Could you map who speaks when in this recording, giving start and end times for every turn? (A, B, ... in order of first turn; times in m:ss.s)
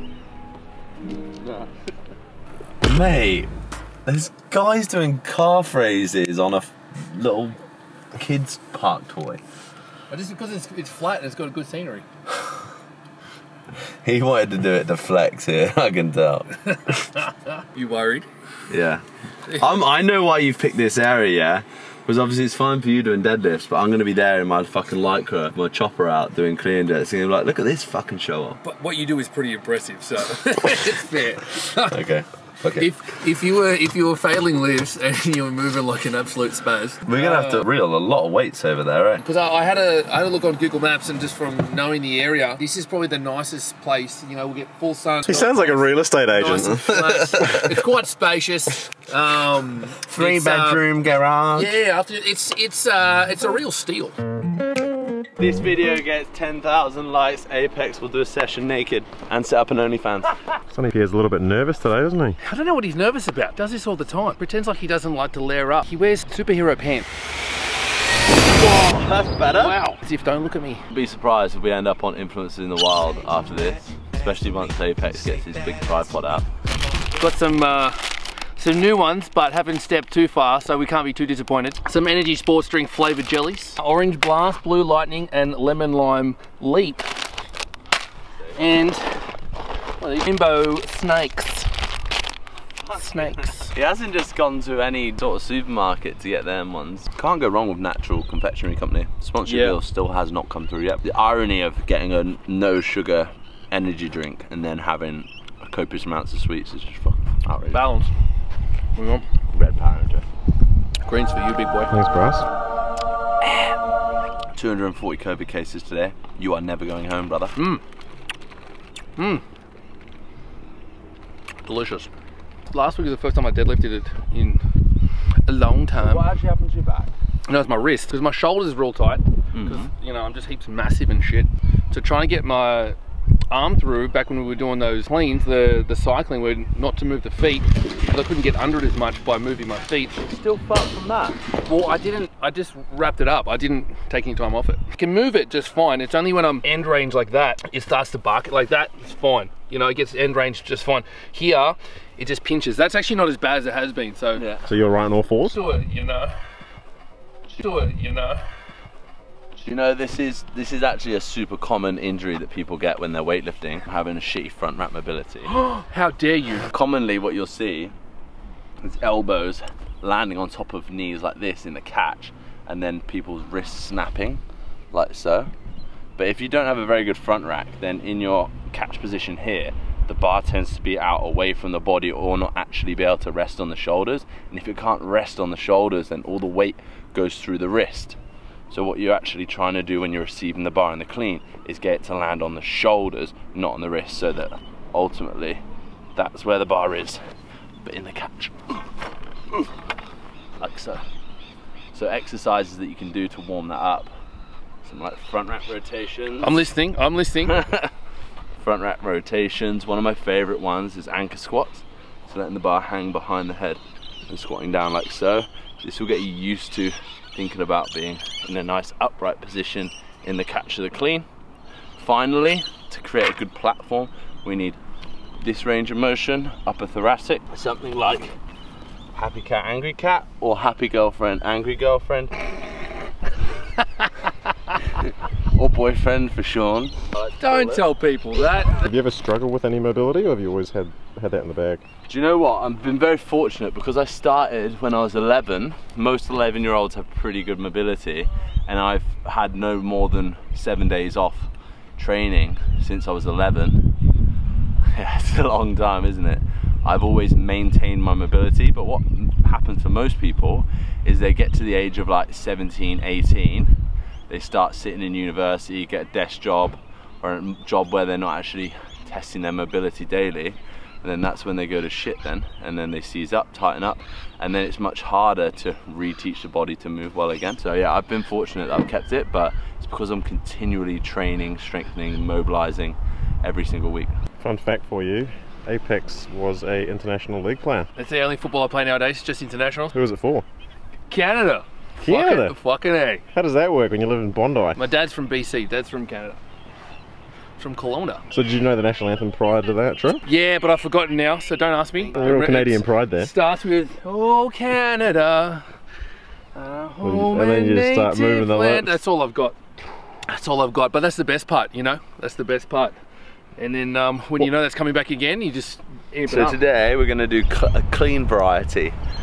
0:01.4-0:01.7 A
0:02.8-0:03.5 A
0:04.1-0:07.6 A
0:08.1-0:09.4 A
0:10.1-0:12.0 B
0:14.0-0:16.5 A
0:16.7-0:18.3 B
0:18.7-0:28.6 A
0:28.6-0:32.0 B
0:31.9-0:32.9 A
0:32.7-0:37.7 B
0:37.1-0:39.2 A
0:39.2-0:50.8 B
0:45.3-0:46.8 C
0:46.6-0:47.7 A
0:50.0-0:51.7 A
0:51.5-0:54.2 B
0:55.4-1:00.4 A
1:00.7-1:02.4 C
1:02.4-1:07.1 B
1:08.4-1:09.9 A
1:09.6-1:10.8 B
1:10.9-1:16.4 A
1:17.2-1:27.1 B
1:28.6-1:29.2 B
1:30.0-1:31.7 B
1:32.9-1:47.8 A
1:32.9-1:33.7 B
1:39.4-1:39.8 B
1:47.7-1:48.1 B
1:49.0-1:49.3 B
1:49.5-1:50.3 A
1:51.0-1:51.9 B
1:51.9-1:52.5 C
1:54.6-1:57.6 A
1:57.6-1:57.8 B
1:59.2-1:59.4 B
2:01.7-2:02.1 B
2:02.7-2:04.6 B
2:05.4-2:06.3 B
2:06.0-2:07.1 A
2:07.5-2:13.0 B
2:09.5-2:09.9 A
2:13.5-2:20.2 B
2:20.2-2:21.4 A
2:21.6-2:34.4 B
2:34.4-2:34.7 A
2:34.7-2:35.6 C
2:35.4-2:36.3 B
2:37.5-2:38.4 B
2:39.6-2:45.5 A
2:45.5-2:46.7 B
2:46.7-2:48.0 A
2:48.8-2:55.5 A
2:56.2-3:08.2 A
3:08.7-3:15.6 A
3:16.2-3:17.2 A
3:17.8-3:18.8 A
3:20.6-3:21.0 A
3:21.9-3:24.1 A
3:24.8-3:26.6 A
3:26.4-3:27.6 B
3:27.6-3:27.9 A
3:28.6-3:41.3 A
3:42.0-3:44.8 A
3:45.4-3:48.4 A
3:49.1-3:52.3 A
3:55.0-3:57.8 A
3:57.4-3:58.9 B
3:58.8-4:01.8 C
4:02.1-4:13.9 A
4:14.9-4:23.8 A
4:24.3-4:44.2 A
4:44.4-4:47.9 C
4:48.0-4:50.0 B
4:49.9-4:50.4 C
4:51.1-4:53.2 B
4:52.0-4:52.6 C
4:53.3-4:54.8 C
4:54.8-4:56.4 B
4:57.6-4:58.2 B
4:58.3-5:00.2 C
5:00.3-5:05.7 B
5:02.1-5:03.3 C
5:06.6-5:09.6 B
5:07.0-5:08.9 C
5:10.3-5:13.0 B
5:13.6-5:16.6 B
5:16.2-5:19.0 A